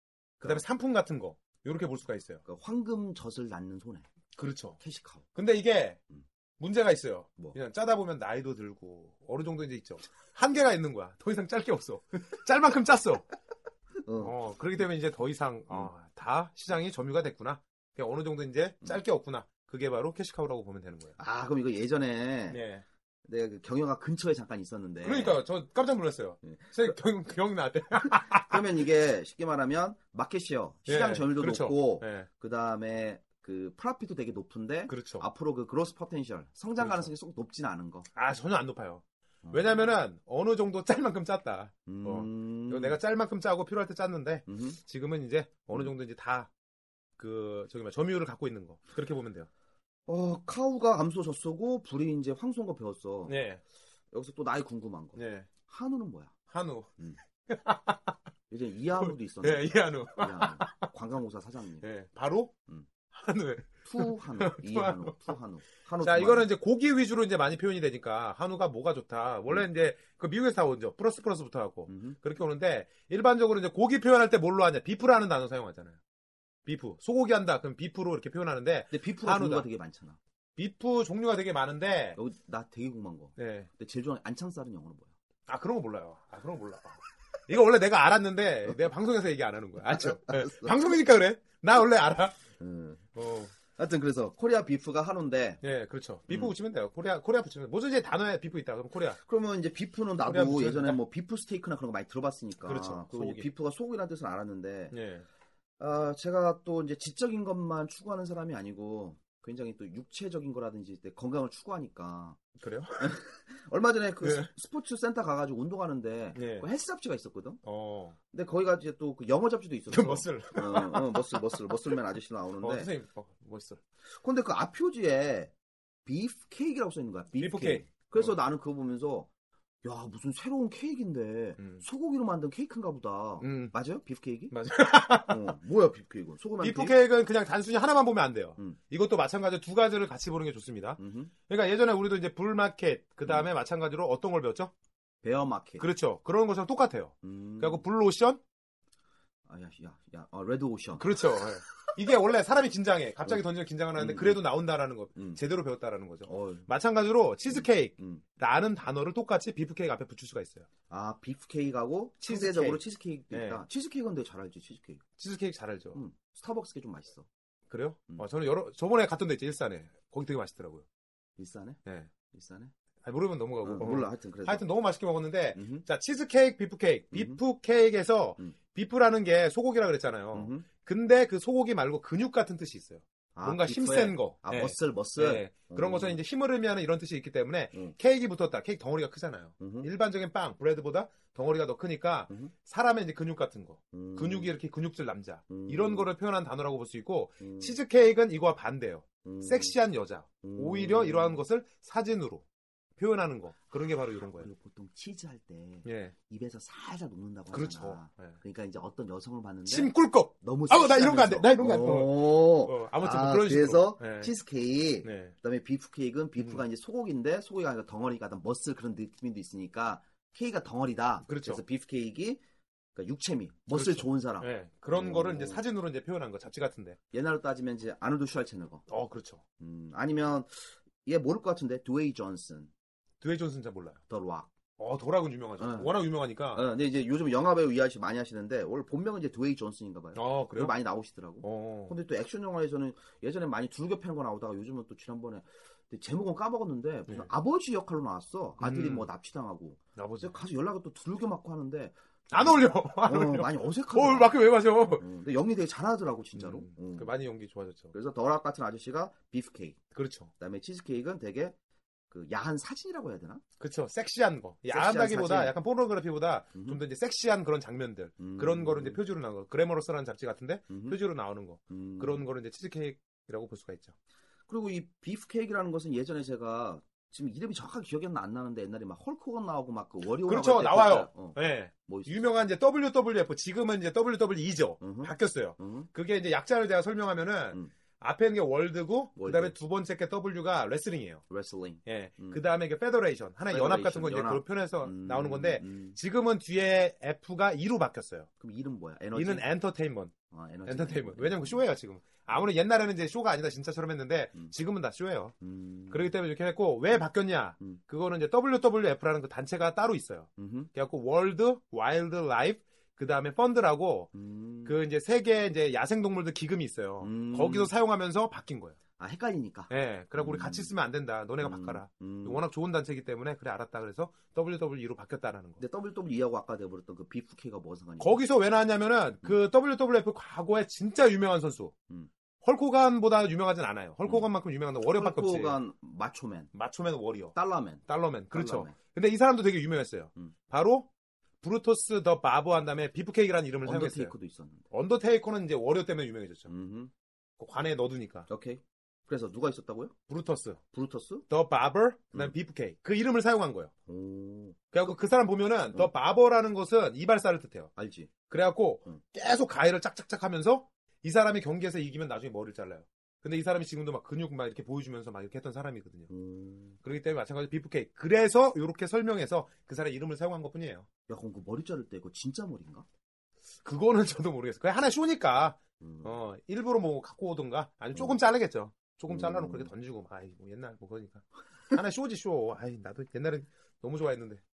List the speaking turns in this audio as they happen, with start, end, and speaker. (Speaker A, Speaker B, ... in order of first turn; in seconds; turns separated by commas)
Speaker A: 0.4-2.4, Speaker B: 2.4-4.0, Speaker A: 4.3-4.8, Speaker B: 4.8-5.2, Speaker A: 5.3-6.0, Speaker A: 6.6-13.3, Speaker B: 14.0-14.3, Speaker A: 14.2-21.2, Speaker B: 21.2-22.6, Speaker A: 22.5-22.8, Speaker B: 23.3-25.4, Speaker A: 25.0-28.6, Speaker B: 26.4-26.9, Speaker B: 28.0-38.1, Speaker A: 30.9-32.3, Speaker A: 34.9-35.2, Speaker A: 36.8-37.1, Speaker A: 38.1-46.5, Speaker B: 39.4-39.9, Speaker B: 41.9-43.0, Speaker B: 44.5-44.8, Speaker A: 47.2-49.5, Speaker B: 50.1-53.4, Speaker A: 53.2-53.6, Speaker B: 54.1-56.3, Speaker A: 55.1-55.5, Speaker A: 56.5-58.1, Speaker B: 58.5-61.9, Speaker A: 58.9-60.9, Speaker A: 61.8-62.5, Speaker A: 63.1-65.3, Speaker B: 63.8-66.5, Speaker A: 66.0-76.0, Speaker B: 71.9-72.2, Speaker A: 76.7-79.7, Speaker B: 78.9-80.2, Speaker A: 80.6-82.2, Speaker B: 82.1-85.1, Speaker A: 83.4-83.7, Speaker A: 85.5-92.4, Speaker B: 89.8-91.0, Speaker B: 92.6-93.1, Speaker A: 93.1-93.5, Speaker B: 93.7-95.6, Speaker A: 95.6-99.2, Speaker B: 99.1-105.0, Speaker A: 100.2-101.0, Speaker A: 102.6-103.5, Speaker A: 104.9-105.2, Speaker B: 105.8-112.4, Speaker A: 112.6-113.1, Speaker B: 113.0-117.6, Speaker A: 114.2-114.5, Speaker A: 116.3-116.7, Speaker A: 117.6-118.2, Speaker B: 118.3-122.9, Speaker A: 119.9-122.0, Speaker A: 122.6-123.8, Speaker B: 124.2-125.5, Speaker B: 126.0-129.3, Speaker A: 127.4-128.4, Speaker B: 129.8-134.6, Speaker A: 131.6-131.8, Speaker A: 133.4-133.8, Speaker A: 134.5-135.5, Speaker B: 135.2-137.0, Speaker A: 136.6-144.7, Speaker B: 141.0-141.3, Speaker B: 145.2-145.9, Speaker A: 145.8-148.4, Speaker B: 147.2-147.8, Speaker B: 149.4-151.2, Speaker A: 150.9-160.7, Speaker B: 153.9-154.5, Speaker B: 155.1-155.4, Speaker B: 156.2-156.7, Speaker B: 157.5-158.2, Speaker B: 160.9-165.0, Speaker A: 162.2-163.6, Speaker A: 165.2-166.0, Speaker B: 165.9-167.3, Speaker A: 167.7-170.8, Speaker B: 171.4-171.8, Speaker A: 171.8-172.1, Speaker B: 172.3-172.7, Speaker A: 173.0-202.4, Speaker B: 173.6-174.7, Speaker B: 175.5-175.8, Speaker B: 177.1-177.4, Speaker B: 180.3-180.7, Speaker B: 183.3-186.2, Speaker B: 189.6-189.9, Speaker B: 193.9-194.6, Speaker B: 195.5-196.1, Speaker B: 197.4-197.8, Speaker B: 199.2-199.8, Speaker B: 200.4-201.4, Speaker A: 203.0-204.5, Speaker B: 204.2-222.4, Speaker A: 205.8-206.1, Speaker A: 207.5-208.3, Speaker A: 209.7-214.4, Speaker A: 215.0-215.3, Speaker A: 216.4-216.6, Speaker A: 221.2-221.6, Speaker B: 222.9-225.6, Speaker A: 223.7-227.0, Speaker B: 227.1-228.8, Speaker A: 228.9-229.4, Speaker B: 229.6-232.7, Speaker A: 233.2-234.0, Speaker B: 234.1-234.5, Speaker A: 234.8-236.7, Speaker B: 235.6-257.1, Speaker A: 240.1-240.8, Speaker A: 241.4-241.9, Speaker A: 248.6-249.1, Speaker A: 249.9-250.4, Speaker A: 252.3-255.0, Speaker A: 256.3-257.9, Speaker B: 257.9-259.8, Speaker A: 259.9-260.3, Speaker B: 260.4-261.6, Speaker B: 262.1-263.4, Speaker A: 263.6-273.9, Speaker B: 264.7-265.6, Speaker B: 266.5-266.8, Speaker B: 268.2-269.0, Speaker B: 270.7-271.0, Speaker B: 271.7-272.2, Speaker B: 274.5-282.3, Speaker A: 280.1-291.2, Speaker B: 284.8-285.9, Speaker B: 289.2-289.6, Speaker B: 291.3-292.4, Speaker A: 291.8-298.3, Speaker B: 293.5-296.0, Speaker B: 298.4-299.5, Speaker A: 299.1-300.1, Speaker B: 300.3-301.6, Speaker A: 300.6-305.4, Speaker B: 305.4-306.1, Speaker A: 305.9-314.1, Speaker B: 310.4-310.7, Speaker B: 314.1-314.8, Speaker A: 314.6-318.8, Speaker B: 317.0-317.7, Speaker B: 319.0-320.8, Speaker A: 319.7-325.6, Speaker B: 321.4-322.4, Speaker B: 325.6-328.2, Speaker A: 328.0-331.7, Speaker A: 332.4-335.6, Speaker B: 334.8-336.5, Speaker A: 336.5-340.9, Speaker B: 337.3-338.8, Speaker A: 341.4-344.1, Speaker B: 343.6-344.7, Speaker A: 344.7-346.5, Speaker B: 346.5-346.9, Speaker A: 347.4-348.3, Speaker B: 348.3-349.9, Speaker A: 350.1-350.6, Speaker B: 350.7-351.2, Speaker A: 351.3-353.7, Speaker B: 353.9-354.7, Speaker A: 354.7-357.7, Speaker B: 357.8-358.3, Speaker A: 358.2-366.1, Speaker B: 366.1-366.8, Speaker A: 366.8-370.9, Speaker B: 371.1-372.9, Speaker A: 373.6-384.4, Speaker B: 375.8-376.2, Speaker B: 379.1-379.7